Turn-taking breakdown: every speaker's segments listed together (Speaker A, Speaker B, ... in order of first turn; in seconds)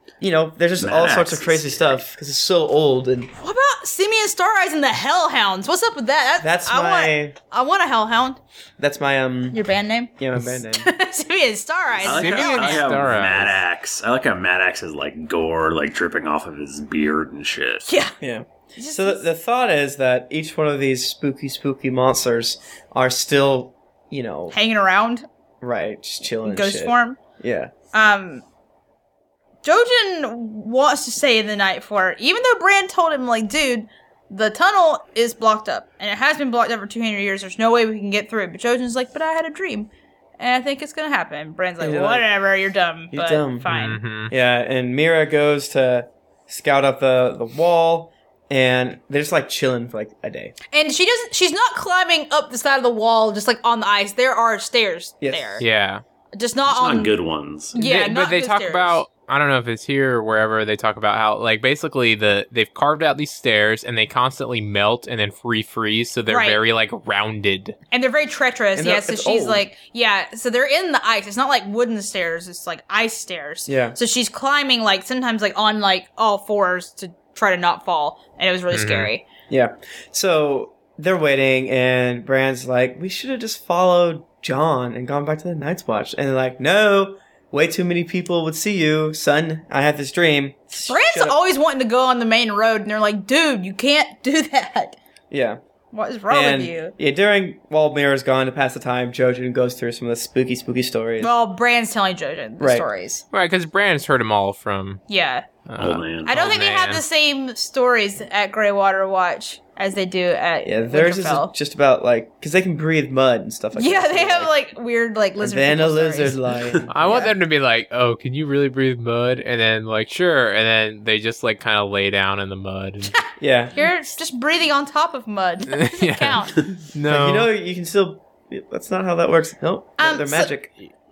Speaker A: 0.2-3.3, 6.4-7.4, 8.8-9.6, 10.2-10.9, 18.2-24.6, 25.6-27.7, 41.8-42.2, 43.1-43.7, 44.3-50.5, 55.2-55.6, 68.8-69.7, 73.7-74.0, 79.5-91.4, 95.3-95.6, 96.3-101.3, 102.6-102.9, 110.6-114.5, 115.4-116.9, 123.4-123.8, 127.1-130.7
Speaker B: 0.8-2.0, 12.0-17.9, 56.7-57.8, 105.8-106.3
Speaker C: 3.4-8.4, 9.5-12.9, 17.9-18.2, 18.8-19.3, 24.5-25.3, 26.4-27.2, 27.9-28.4, 29.6-44.0, 50.7-55.6, 56.3-57.2, 57.7-59.0, 66.3-66.6, 67.9-79.2, 90.9-95.0, 95.9-96.9, 101.2-103.2, 105.1-105.5, 106.3-111.5, 113.8-116.4, 117.0-117.3, 123.7-126.6, 130.0-130.5
Speaker D: 12.0-13.6, 43.7-44.3, 55.6-56.0, 57.7-67.8, 78.7-79.1, 103.3-105.0, 105.7-107.0, 116.9-123.2, 125.7-127.5